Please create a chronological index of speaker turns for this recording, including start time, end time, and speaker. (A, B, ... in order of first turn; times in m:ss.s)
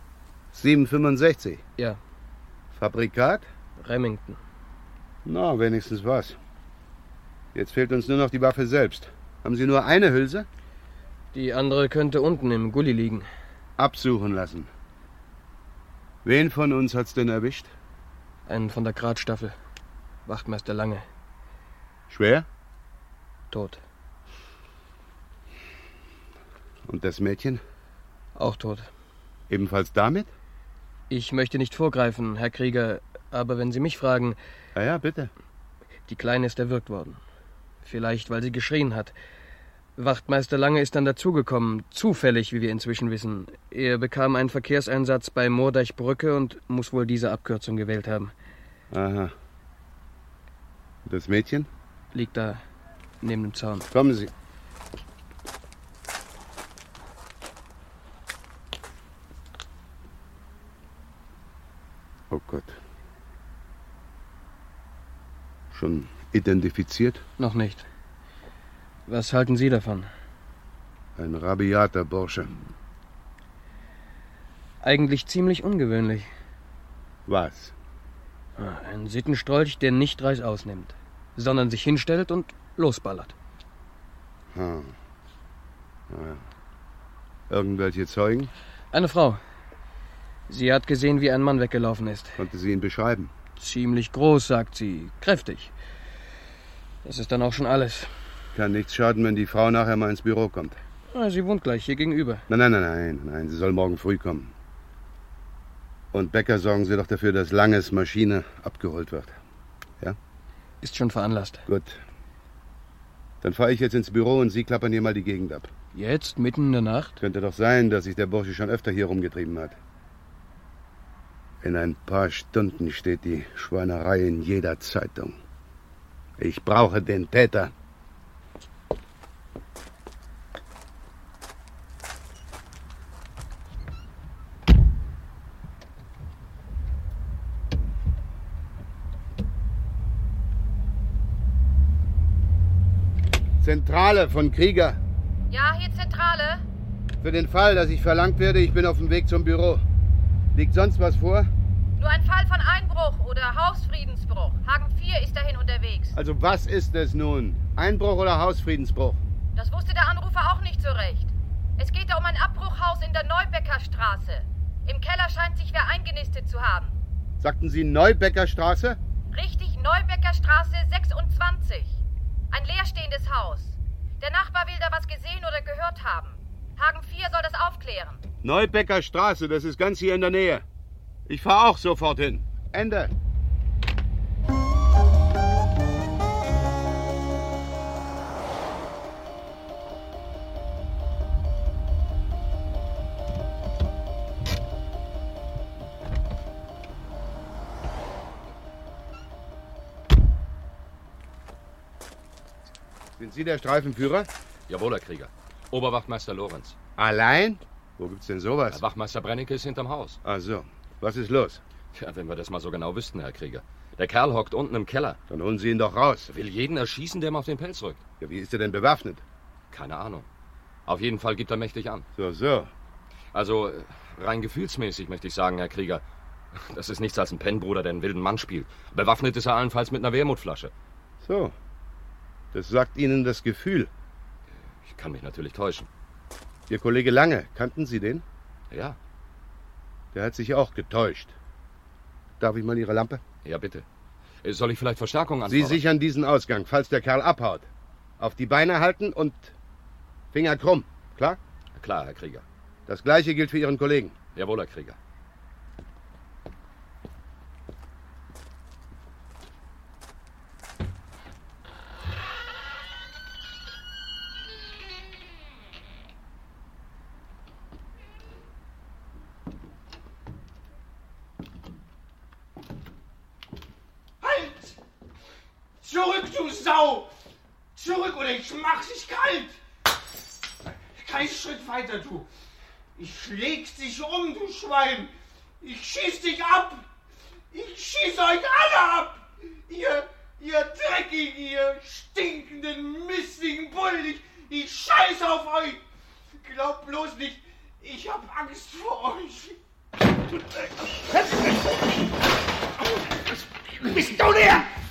0:00.5-0:01.6 A
0:02.7-0:03.5 A
0:03.8-0:04.4 B
0:05.2-0:06.4 A
0:07.6-0:10.5 A
0:11.3-0:13.3 B
0:13.8-0:14.7 A
0:16.2-0:17.7 A
0:18.5-0:19.6 B
0:20.3-0:21.0 B
0:22.1-0:22.5 A
0:23.5-0:23.8 B
0:26.9-0:27.6 A
0:28.4-0:28.9 B
0:29.5-0:30.3 A
0:31.1-0:34.4 B
0:34.8-0:35.3 A
0:36.1-0:37.2 B
0:37.8-0:39.1 B
0:40.0-0:48.3 B
0:48.9-0:49.3 A
0:51.1-0:51.7 A
0:52.1-0:52.6 B
0:53.2-0:53.9 B
0:53.9-0:54.3 A
1:02.3-1:02.8 A
1:05.7-1:07.2 A
1:07.4-1:07.9 B
1:09.1-1:10.1 B
1:11.2-1:12.6 A
1:14.8-1:16.3 B
1:17.3-1:17.7 A
1:18.6-1:23.3 B
1:24.5-1:25.0 A
1:26.1-1:26.4 A
1:27.5-1:28.5 A
1:28.9-1:29.4 B
1:30.5-1:32.4 B
1:32.4-1:33.3 A
1:33.6-1:35.7 B
1:37.0-1:38.1 B
1:38.6-1:40.8 A
1:41.1-1:42.4 B
1:42.5-1:44.5 A
1:46.1-1:49.4 A
1:50.8-1:51.6 B
1:51.7-1:52.0 A
1:53.4-1:55.7 A
1:56.0-1:57.2 B
1:57.2-1:59.8 A
2:01.6-2:05.4 A
2:06.4-2:07.7 A
2:23.6-2:25.0 A
2:25.5-2:26.6 C
2:27.2-2:29.8 A
2:30.5-2:31.5 A
2:32.0-2:36.2 C
2:36.2-2:39.2 A
2:39.6-2:46.9 C
2:47.4-2:49.0 A
2:49.3-2:52.0 C
2:52.5-2:58.2 C
2:58.4-3:00.6 A
3:01.3-3:03.1 A
3:23.2-3:24.3 A
3:24.7-3:26.8 D
3:27.0-3:28.8 A
3:28.7-3:30.2 D
3:30.2-3:31.6 A
3:31.9-3:35.2 D
3:35.3-3:36.3 A
3:36.3-3:38.0 D
3:38.2-3:39.2 A
3:39.7-3:40.3 D
3:40.9-3:42.1 D
3:42.2-3:42.7 A
3:43.3-3:46.0 D
3:46.5-3:50.7 D
3:51.2-3:51.5 A
3:52.5-3:53.9 A
3:54.8-3:55.9 D
3:56.7-3:58.2 A
3:58.7-3:59.0 D
4:00.1-4:01.4 A
4:02.4-4:03.2 A
4:03.4-4:03.8 D
4:04.4-4:05.8 D
4:05.5-4:09.5 A
4:10.3-4:11.4 A
4:11.8-4:12.4 D
4:12.9-4:14.2 A
4:14.4-4:15.0 D
4:34.2-4:34.7 E
4:35.8-4:37.1 E
4:37.8-4:39.5 E
4:40.9-4:42.3 E
4:43.0-4:46.8 E
4:47.5-4:55.8 E
4:56.4-4:59.6 E
5:03.7-5:04.7 A